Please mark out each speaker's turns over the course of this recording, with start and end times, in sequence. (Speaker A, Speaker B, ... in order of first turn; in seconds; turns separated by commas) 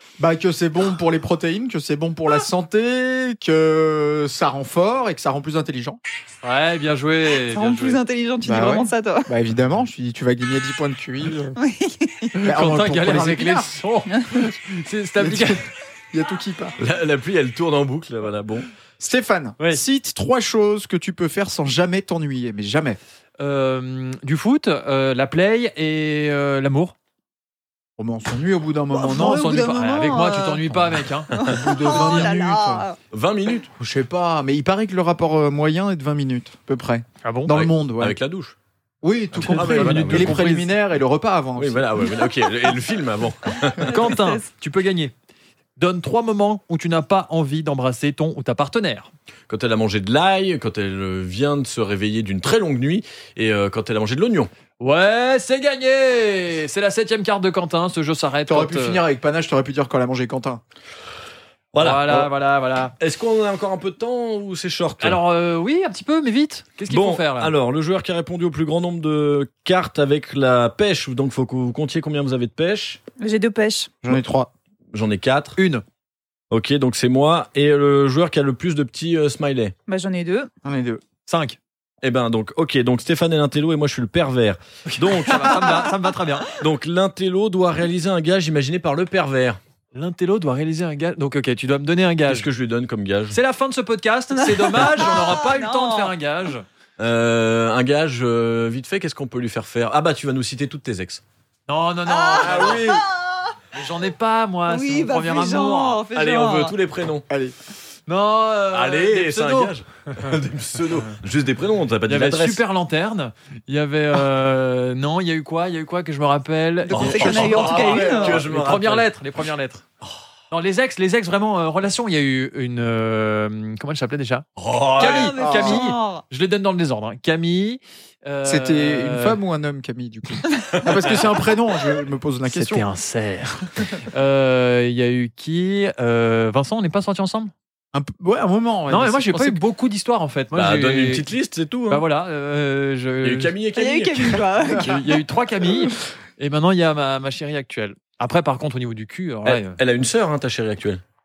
Speaker A: 0.2-6.0, Speaker B: 6.4-8.0, Speaker C: 7.5-9.3, Speaker A: 8.4-11.6, Speaker C: 11.6-12.3, Speaker B: 12.3-15.6, Speaker A: 12.4-13.8, Speaker A: 15.2-16.8, Speaker D: 16.8-18.7, Speaker A: 19.0-23.0, Speaker B: 23.4-26.9, Speaker A: 28.0-29.5, Speaker C: 28.9-30.8, Speaker B: 29.1-32.2, Speaker A: 31.4-32.9, Speaker C: 31.5-33.0, Speaker D: 33.1-33.7, Speaker A: 33.8-38.2, Speaker B: 37.2-37.6, Speaker D: 37.5-38.5, Speaker A: 39.0-42.1, Speaker B: 39.4-40.7, Speaker D: 39.4-40.4, Speaker D: 41.6-44.0, Speaker B: 43.8-45.1, Speaker C: 43.8-44.5, Speaker B: 45.8-49.1, Speaker D: 49.5-54.5, Speaker B: 54.8-59.0, Speaker A: 58.5-60.6, Speaker D: 61.7-62.3, Speaker B: 61.8-62.9, Speaker D: 63.0-65.2, Speaker B: 65.0-67.5, Speaker D: 66.9-73.0, Speaker C: 73.2-73.9, Speaker A: 74.0-74.5, Speaker D: 74.9-75.6, Speaker B: 75.6-75.8, Speaker D: 76.5-79.7, Speaker C: 79.9-80.5, Speaker A: 80.6-81.0, Speaker B: 81.3-81.6, Speaker D: 82.0-85.9, Speaker B: 84.9-86.5, Speaker D: 86.5-89.6, Speaker B: 89.9-92.5, Speaker D: 92.3-93.4, Speaker B: 93.3-96.6, Speaker C: 94.3-96.1, Speaker D: 97.0-101.2, Speaker B: 101.7-102.9, Speaker C: 102.1-103.6, Speaker A: 102.3-103.0, Speaker B: 103.7-106.0, Speaker C: 104.7-106.7, Speaker D: 106.1-107.3, Speaker A: 107.3-107.5, Speaker B: 108.1-109.7, Speaker D: 108.7-112.6, Speaker B: 112.1-119.8, Speaker C: 116.9-118.4, Speaker D: 116.9-119.1, Speaker A: 117.4-118.4, Speaker B: 120.5-129.4, Speaker D: 124.6-125.4, Speaker C: 125.0-126.2, Speaker A: 125.4-125.8, Speaker A: 128.4-132.9, Speaker D: 130.7-131.0, Speaker B: 132.5-137.5, Speaker A: 137.9-139.6, Speaker B: 138.9-141.3, Speaker D: 140.5-142.0, Speaker B: 141.9-143.5, Speaker D: 143.2-144.9, Speaker C: 143.7-145.0, Speaker B: 144.8-149.8, Speaker D: 149.4-151.0